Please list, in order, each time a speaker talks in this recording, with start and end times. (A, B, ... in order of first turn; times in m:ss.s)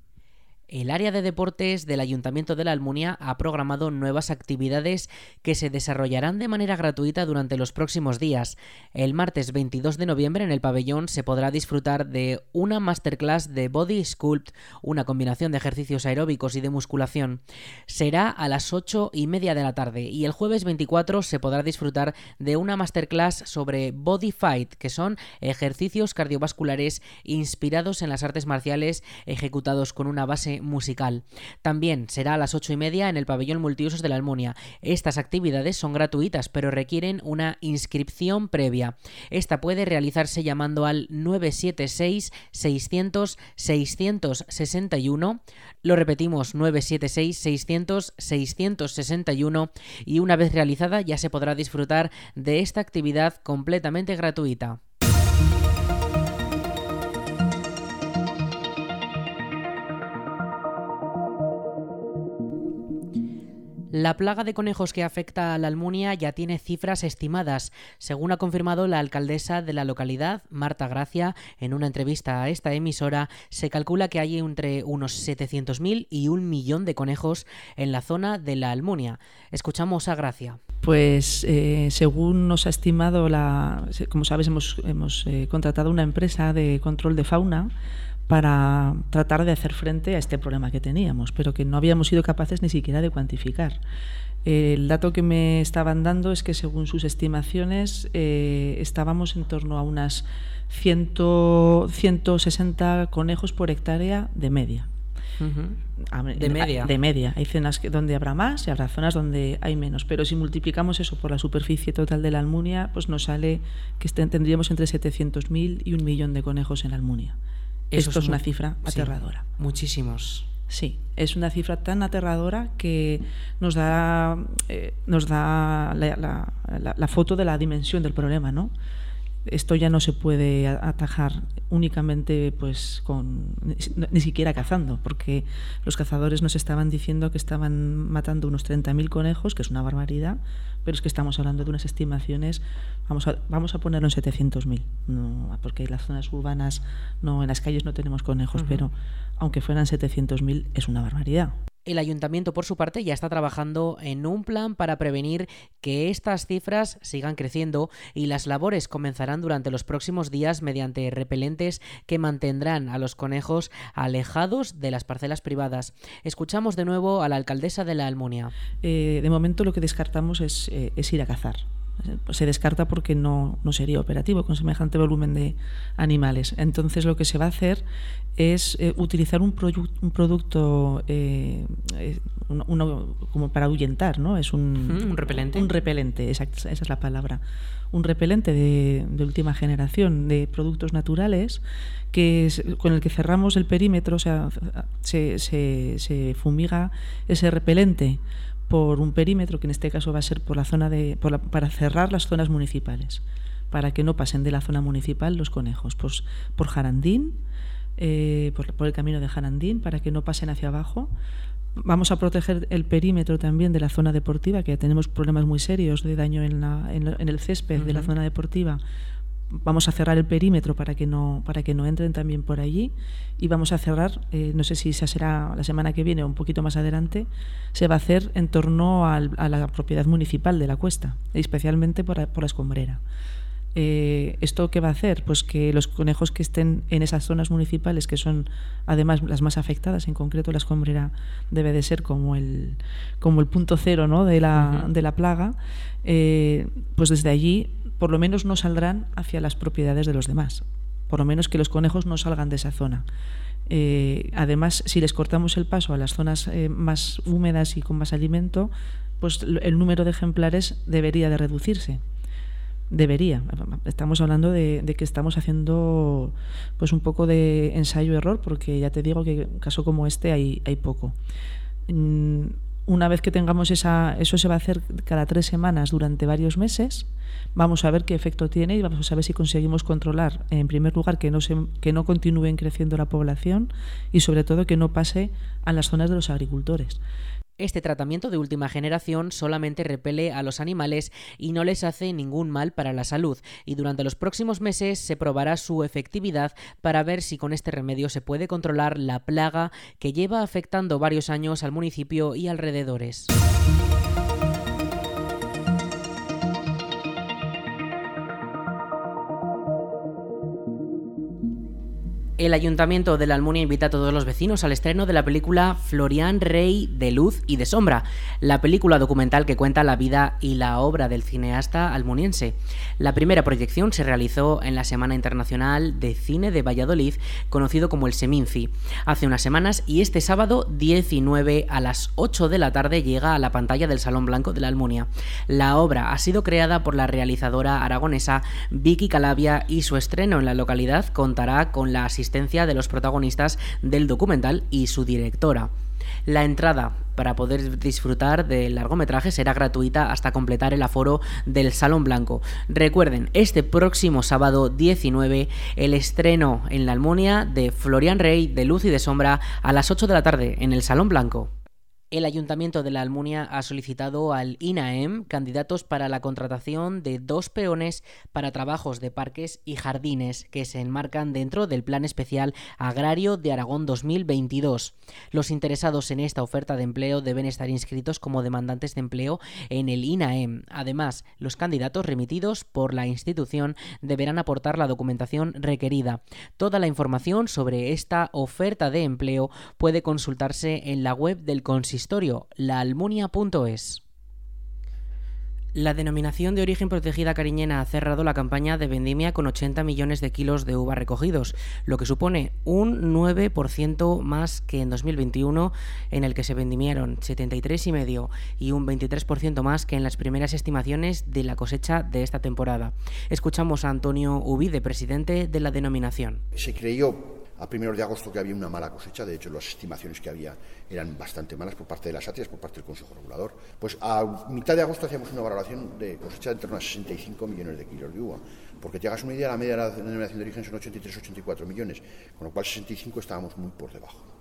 0:00.7-0:54.8 A
1:03.9-1:20.6 A
1:20.8-1:27.7 B
1:28.3-1:33.8 B
1:34.4-1:44.9 B
1:45.4-1:45.8 A
1:46.1-1:57.4 B
1:46.4-1:46.9 A
1:57.9-1:59.4 B
1:57.9-2:00.4 A
2:00.7-2:08.7 B
2:09.4-2:31.5 B
2:28.6-2:28.8 A
2:31.8-2:48.5 A
2:48.8-2:57.8 B
2:58.4-3:27.4 B
3:04.8-3:05.7 A
3:28.0-3:31.1 B
3:31.8-3:38.8 B
3:37.8-3:38.1 A
3:39.5-3:53.0 B
3:53.7-4:13.0 B
4:04.6-4:04.9 A
4:13.7-4:22.0 B
4:22.9-4:31.2 B
4:31.9-4:47.0 B
4:47.6-5:03.3 A
5:12.4-5:45.7 A
5:46.2-6:01.5 A
6:02.1-6:34.0 A
6:35.7-6:56.4 A
6:56.6-7:14.3 C